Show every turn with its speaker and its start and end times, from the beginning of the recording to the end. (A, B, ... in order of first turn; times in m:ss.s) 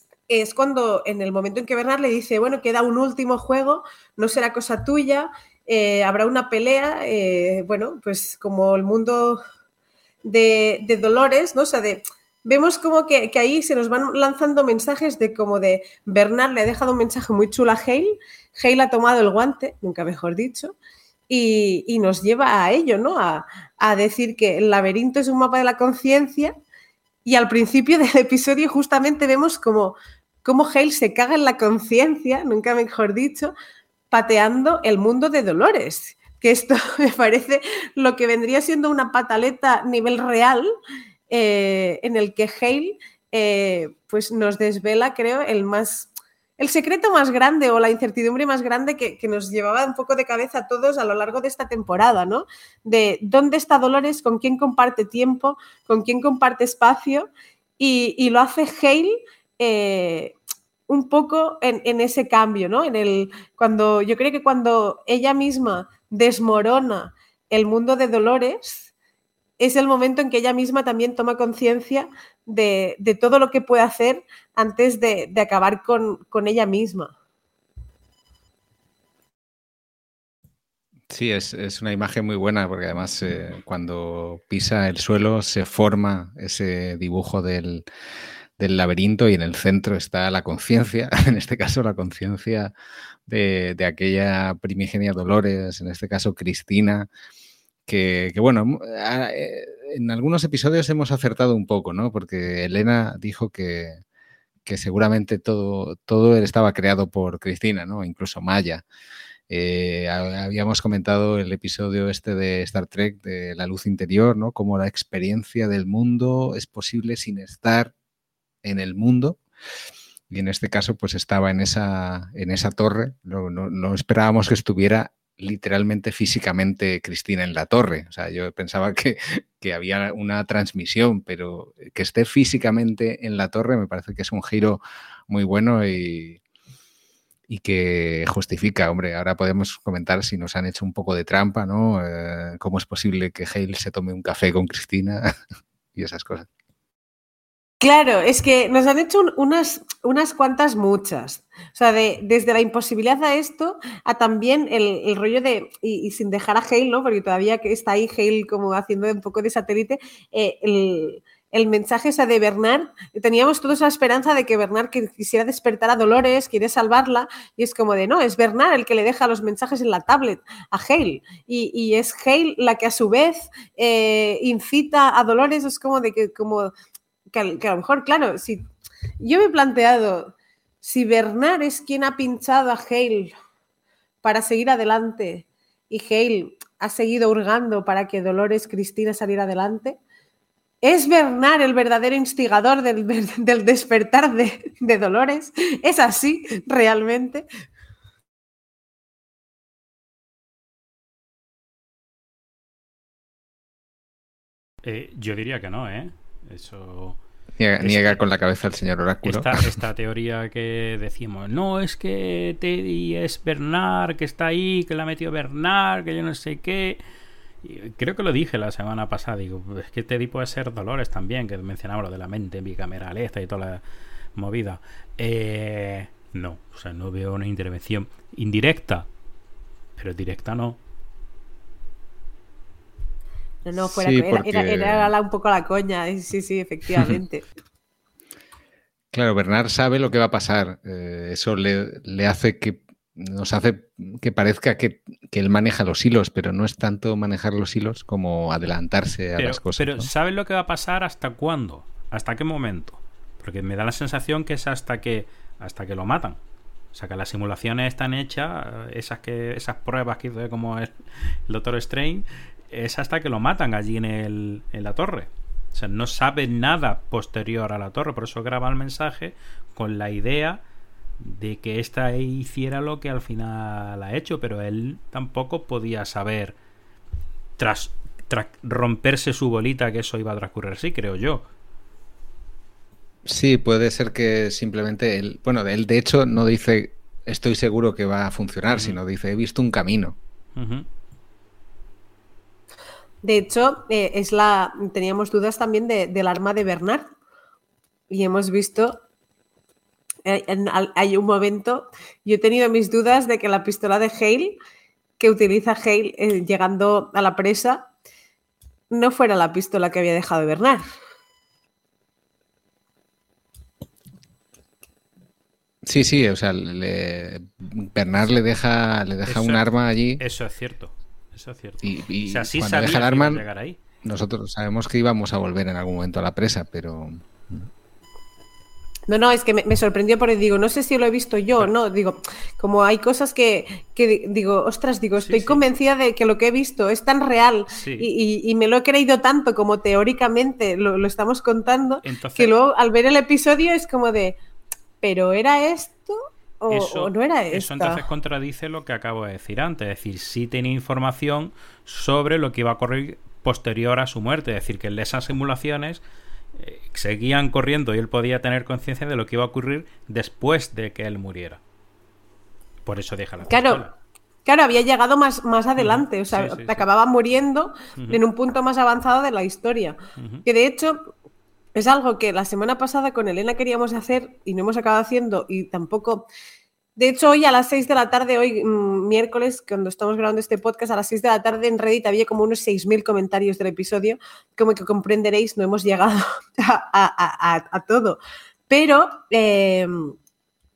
0:00.3-0:09.4 A
0:10.2-0:20.8 A
0:21.3-0:26.6 A
0:27.3-0:33.5 A
0:34.1-0:40.7 A
0:41.3-1:00.3 A
1:00.9-1:08.9 A
1:09.6-1:17.1 A
1:21.1-1:27.9 B
1:28.6-1:32.7 B
1:33.3-1:37.1 B
1:37.9-1:44.0 B
1:44.7-1:48.8 B
1:49.5-1:57.9 B
1:58.6-1:59.4 B
2:00.3-2:16.4 B
2:17.5-2:25.3 B
2:26.0-2:26.5 B
2:27.8-2:56.7 A
2:57.3-2:58.6 A
2:59.2-3:03.3 A
3:04.2-3:10.0 A
3:10.8-3:17.5 A
3:24.8-3:27.2 C
3:27.6-3:29.8 B
3:27.8-3:28.2 C
3:29.2-3:37.0 C
3:37.6-3:43.8 C
3:44.4-3:49.1 C
3:50.0-3:50.8 C
3:53.6-3:57.5 A
3:53.8-3:55.1 B
3:59.1-4:10.1 B
4:09.4-4:16.4 C
4:16.9-4:30.6 C
4:31.2-4:36.6 C
4:37.6-4:41.4 C
4:43.3-4:50.2 B
4:48.7-4:49.0 C
4:50.6-4:50.9 C
4:53.2-4:57.1 A
4:58.1-4:59.0 A
5:00.2-5:04.6 A
5:05.2-5:07.9 A
5:08.9-5:10.8 A
5:15.8-5:20.2 B
5:19.3-5:19.6 C
5:20.2-5:23.8 C
5:21.8-5:23.4 B
5:24.0-5:27.7 B
5:29.1-5:44.4 A
5:35.2-5:35.6 C
5:37.7-5:38.1 C
5:42.0-5:42.5 C
5:45.0-5:48.0 A
5:46.7-5:56.0 C
5:56.6-6:01.6 C
6:02.9-6:03.9 C
6:03.5-6:03.8 A
6:04.5-6:11.0 A
6:05.8-6:06.9 C
6:10.2-6:10.4 C
6:11.8-6:16.3 A
6:17.0-6:30.2 A